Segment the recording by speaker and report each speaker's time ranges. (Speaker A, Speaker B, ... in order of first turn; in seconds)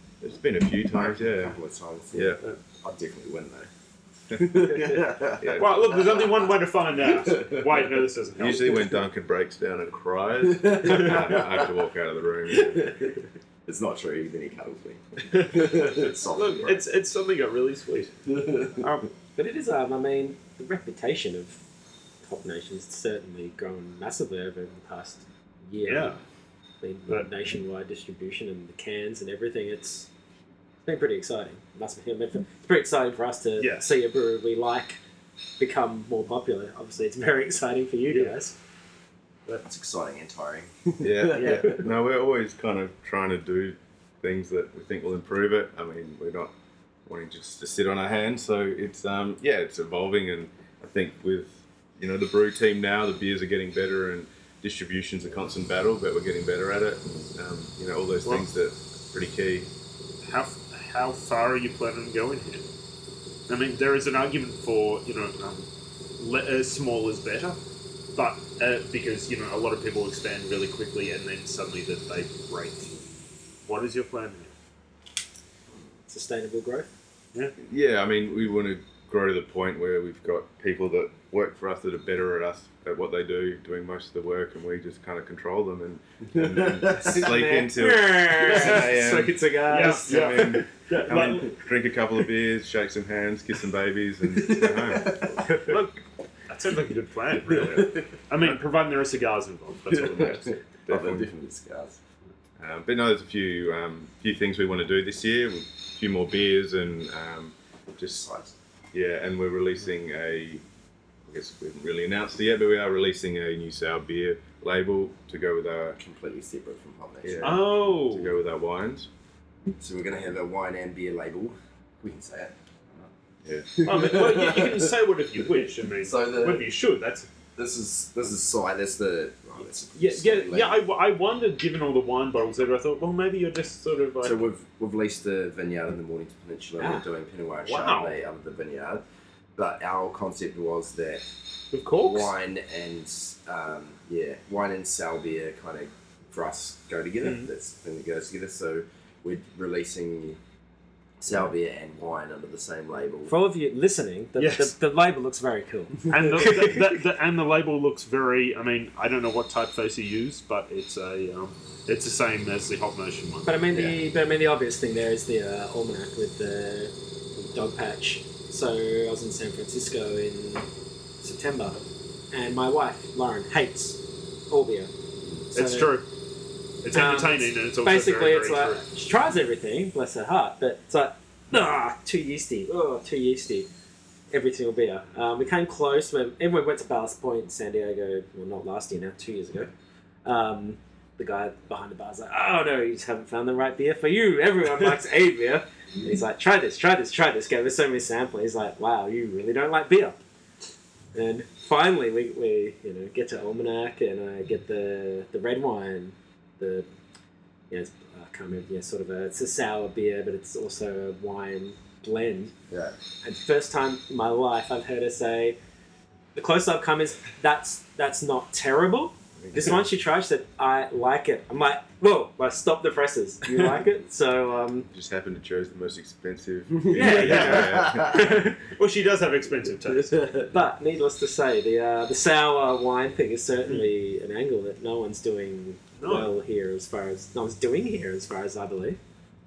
Speaker A: 0.2-1.6, 2.1-2.4, 4.3-4.6, 5.4-5.9, 8.4-12.9, 41.0-46.5, 47.0-59.7, 77.6-95.4, 100.1-101.3, 102.6-108.2, 108.9-110.6, 111.2-116.0, 117.2-119.1, 123.4-123.8, 219.4-219.8, 224.9-228.5
Speaker B: 0.9-3.7, 4.3-6.5, 7.0-7.8, 10.5-11.7, 12.5-16.9, 18.3-18.9, 39.6-41.9, 86.4-87.2, 94.3-95.6, 97.6-97.9, 99.9-102.0, 108.1-108.5, 116.0-117.6, 119.8-123.1, 123.7-124.9, 125.6-126.7, 127.5-130.8, 134.2-139.0, 139.6-141.2, 141.9-150.4, 151.2-153.3, 163.7-164.0, 212.7-212.9, 226.8-228.3, 229.9-230.5
Speaker C: 4.8-8.8, 15.3-18.1, 18.8-19.1, 25.9-26.2, 33.6-33.9, 38.1-38.3, 60.2-62.6, 63.5-65.7, 66.2-67.6, 68.1-73.0, 73.7-74.5, 88.4-88.8, 89.7-91.5, 95.5-100.6, 117.4-118.3, 123.8-127.3, 129.9-134.5, 137.6-138.2, 141.7-142.3, 147.2-147.5, 154.4-154.7, 156.1-163.6, 175.5-176.0, 176.8-178.8, 227.0-227.7, 228.6-230.2, 236.0-236.3
Speaker D: 19.4-21.6, 22.2-26.2, 26.8-30.1, 30.8-35.0, 35.6-38.5, 76.1-76.9, 87.0-90.5, 136.8-137.0, 153.3-157.0, 163.4-170.7, 171.2-174.9, 175.5-176.0, 176.9-183.7, 184.3-189.7, 190.2-200.2, 201.1-206.9, 207.7-212.5, 213.2-215.6, 216.3-224.9, 226.9-228.6, 230.5-239.0